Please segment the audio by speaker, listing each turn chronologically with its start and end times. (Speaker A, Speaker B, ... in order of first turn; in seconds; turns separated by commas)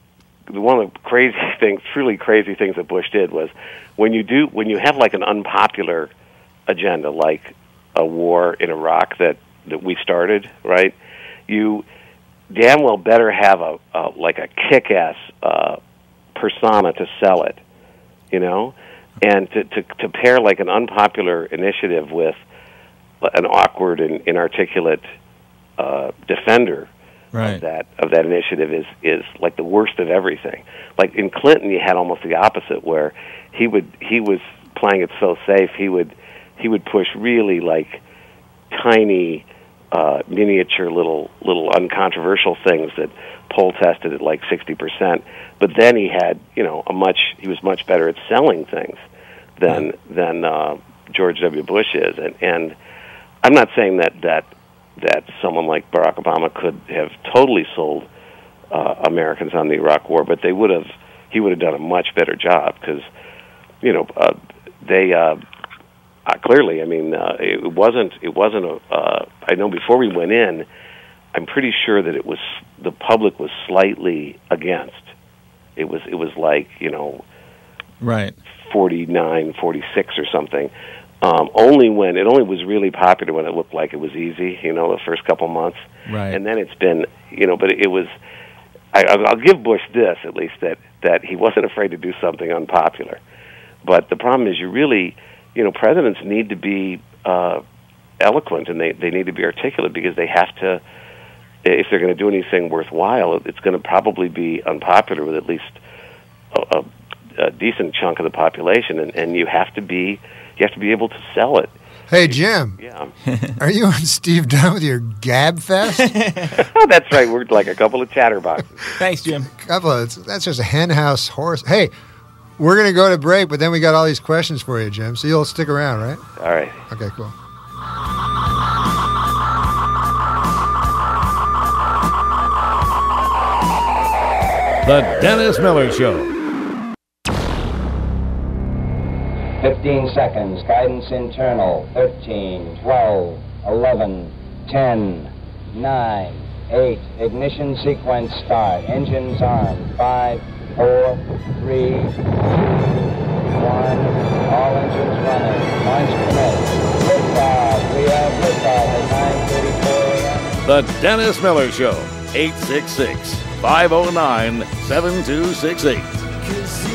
Speaker A: 0.5-6.1, Speaker A: 6.7-10.9, Speaker A: 11.5-11.8, Speaker A: 12.5-15.8, Speaker A: 16.3-17.6, Speaker A: 18.3-22.4, Speaker A: 23.2-25.0, Speaker A: 25.8-38.0, Speaker B: 27.3-27.6, Speaker A: 38.7-49.0, Speaker A: 49.6-52.7, Speaker A: 53.4-58.1, Speaker A: 58.7-63.0, Speaker A: 63.8-65.4, Speaker A: 66.2-70.7, Speaker A: 71.3-75.1, Speaker A: 75.8-77.2, Speaker B: 78.0-78.3, Speaker A: 78.6-80.7, Speaker A: 81.2-88.1, Speaker B: 86.1-86.4, Speaker A: 88.9-93.2, Speaker A: 93.8-97.6, Speaker A: 98.2-100.8, Speaker A: 101.6-105.8, Speaker A: 106.5-113.1, Speaker C: 112.1-112.8, Speaker B: 113.3-113.5, Speaker C: 113.6-116.1, Speaker B: 116.0-116.5, Speaker A: 116.5-118.9, Speaker B: 119.0-119.5, Speaker C: 119.4-121.9, Speaker C: 122.6-126.2, Speaker A: 126.4-126.8, Speaker C: 126.9-127.3, Speaker D: 134.8-136.3, Speaker E: 139.6-152.9, Speaker E: 153.5-160.5, Speaker D: 160.7-166.1